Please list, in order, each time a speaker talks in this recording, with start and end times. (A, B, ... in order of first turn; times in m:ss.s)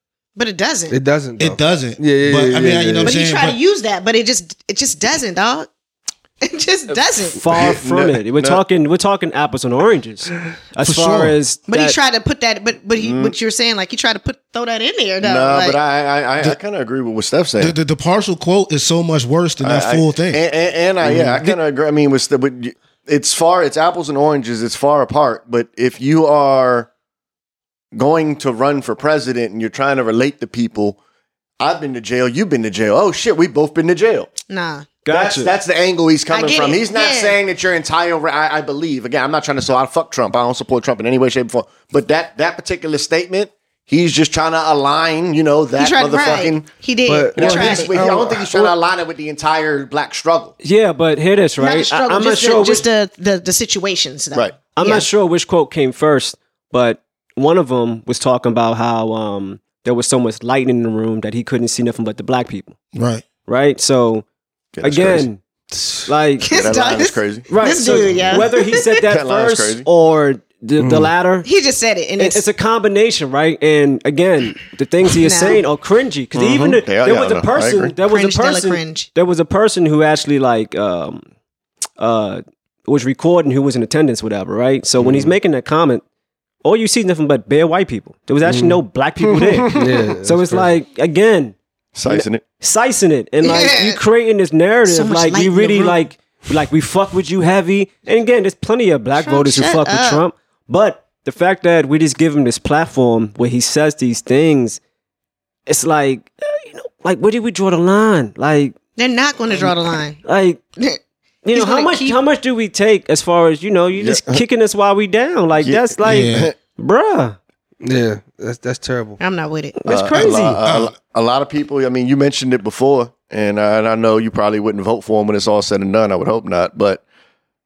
0:00.4-0:01.0 A
0:00.9-0:03.1 B
0:01.4-0:03.6 C
0:03.0-0:05.7 A
0:06.4-0:07.4 A
0:07.3-0:12.0 D
0:07.5-0:08.6 E
0:10.8-0:11.4 C
0:11.7-0:15.8 A
0:13.0-0:13.3 E
0:15.2-0:17.7 E
0:17.6-0:20.4 C
0:19.6-0:26.9 E
0:21.0-0:21.4 B
0:27.9-0:31.0 E
0:31.6-0:34.3 E
0:34.5-0:34.9 A
0:35.0-0:35.5 D
0:35.1-0:46.7 E
0:36.3-0:37.4 A
0:45.8-0:48.0 A
0:47.1-0:48.7 B
0:47.3-0:50.5 E
0:50.6-0:52.8 D
0:51.6-0:55.0 A
0:54.7-1:02.8 D
1:02.9-1:03.3 C
1:03.4-1:04.2 D
1:04.7-1:05.3 E
1:04.8-1:05.4 D
1:05.7-1:06.1 B
1:06.0-1:11.4 D
1:06.4-1:09.0 A
1:06.5-1:07.5 E
1:09.1-1:09.9 E
1:10.8-1:11.1 B
1:11.4-1:12.4 A
1:12.2-1:21.2 D
1:15.2-1:15.6 A
1:16.3-1:17.9 E
1:18.0-1:19.1 A
1:22.0-1:26.0 D
1:25.0-1:25.3 B
1:26.6-1:31.6 D
1:28.4-1:28.8 B
1:29.4-1:29.9 E
1:29.7-1:30.7 B
1:32.0-1:32.4 E
1:32.1-1:44.8 D
1:33.4-1:34.0 A
1:34.8-1:36.0 A
1:39.2-1:40.2 A
1:45.7-1:48.8 D
1:49.0-1:50.2 A
1:49.5-1:50.6 D
1:51.4-1:57.4 D
1:51.5-1:52.2 A
1:54.0-1:54.4 E
1:55.6-1:56.5 E
1:56.0-1:56.5 C
1:57.8-1:59.2 B
1:59.2-1:59.8 A
1:59.8-2:00.6 D
1:59.9-2:07.0 E
2:00.6-2:01.0 C